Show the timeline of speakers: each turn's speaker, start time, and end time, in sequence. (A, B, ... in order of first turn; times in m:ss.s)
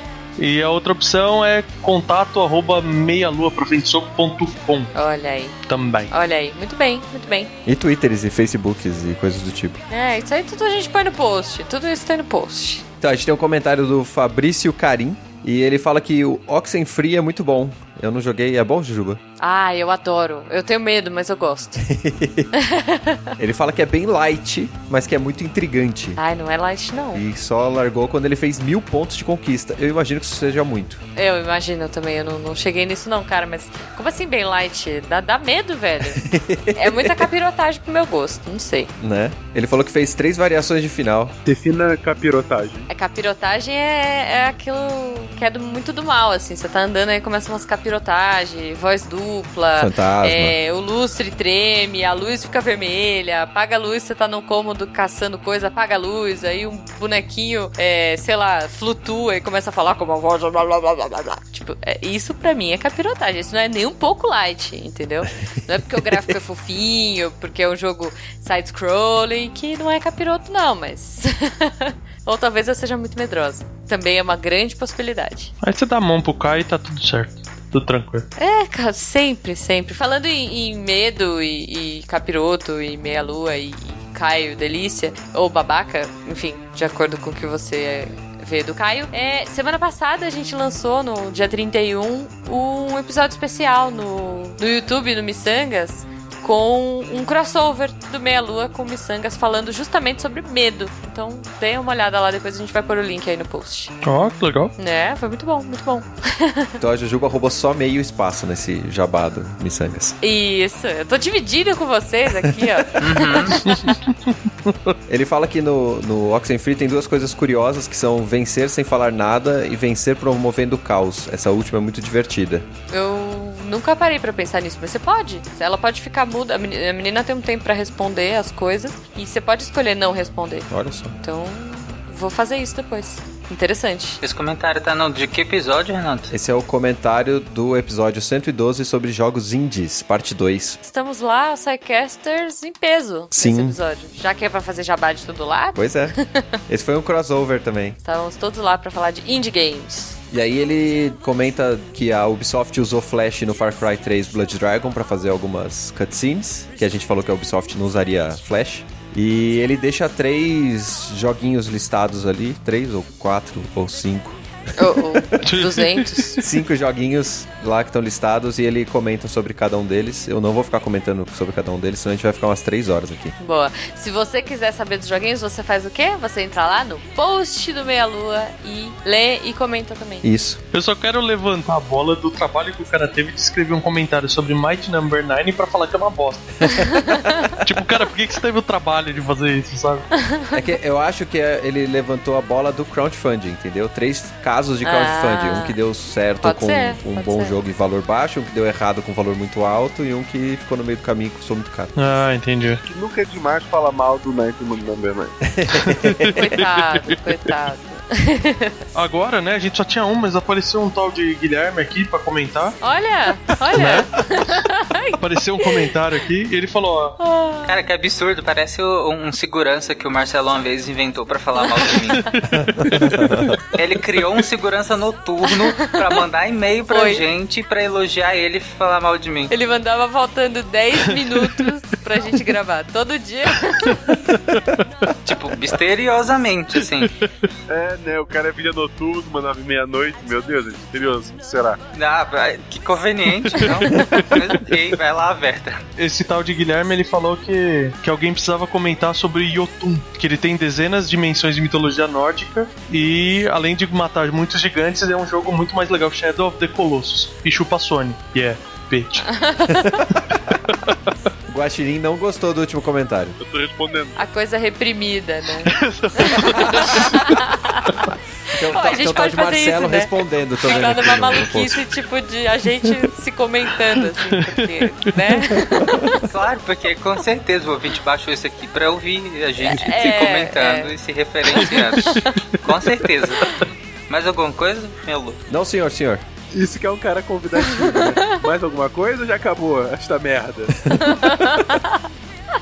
0:00.4-0:04.9 A
0:05.0-0:05.6 B
0:05.7-0:06.1 A
0:06.1-0:07.5 B
0:07.7-0:09.8 C
0:09.9-0:12.8 B
0:13.0-0:19.2 C
0:19.4-0:21.9 B
0:21.8-0:22.5 C
0:22.6-0:23.3 B
0:23.4-0:26.2 C
0:26.2-0:27.2 B
0:27.1-0:31.0 C
0:31.2-0:38.9 B
0:36.1-0:37.3 C
0:39.0-0:41.4 C
0:41.4-0:42.9 D
0:42.9-1:15.5 B
0:49.8-0:50.6 C
1:15.6-1:18.3 A
1:18.4-1:44.0 B
1:44.0-1:44.7 A
1:44.8-1:46.7 B
1:46.8-1:50.2 C
1:50.2-1:53.9 B
1:53.0-1:53.6 E
1:53.6-1:55.0 A
1:55.1-2:02.7 C
2:02.9-2:14.2 B
2:10.7-2:11.2 C
2:14.2-2:16.3 E
2:16.3-2:20.8 C
2:20.8-2:25.8 B
2:23.3-2:23.8 C
2:25.8-2:26.2 C
2:26.7-2:28.0 C
2:28.0-2:30.2 B
2:30.3-2:45.5 C
2:44.8-2:46.4 B
2:45.4-2:46.5 A
2:46.4-2:53.4 C
2:53.4-3:00.2 B
3:00.2-3:00.6 C
3:00.7-3:06.9 A
3:06.8-3:07.6 B
3:07.6-3:10.1 A
3:10.1-3:10.6 B
3:10.5-3:22.2 C
3:14.8-3:15.8 B
3:16.4-3:17.6 B
3:22.0-3:22.8 A
3:22.9-3:25.4 F
3:25.4-3:26.5 C
3:25.8-3:26.6 A
3:26.3-3:28.8 B
3:29.0-3:32.8 A
3:32.8-3:35.8 B
3:33.7-3:34.2 A
3:35.2-3:37.2 A
3:37.2-3:37.7 B
3:37.7-3:42.3 E
3:42.3-3:43.6 A
3:42.6-3:43.6 C
3:43.7-3:49.5 E
3:46.9-3:47.2 B
3:49.5-3:54.0 B
3:54.1-3:55.1 A
3:55.2-3:57.1 E
3:57.7-4:01.8 F
4:01.9-4:05.8 E
4:03.6-4:04.5 A
4:06.0-4:19.4 A
4:19.3-4:20.0 B
4:21.5-4:23.4 C
4:23.4-4:24.2 F
4:24.2-4:28.1 B
4:25.7-4:27.2 A
4:28.5-4:31.8 C
4:28.7-4:36.3 B
4:34.2-4:34.9 A
4:36.2-4:45.4 E
4:39.6-4:40.9 B
4:41.6-4:42.2 B
4:45.5-4:46.2 C
4:46.5-4:50.8 D
4:51.0-4:52.0 B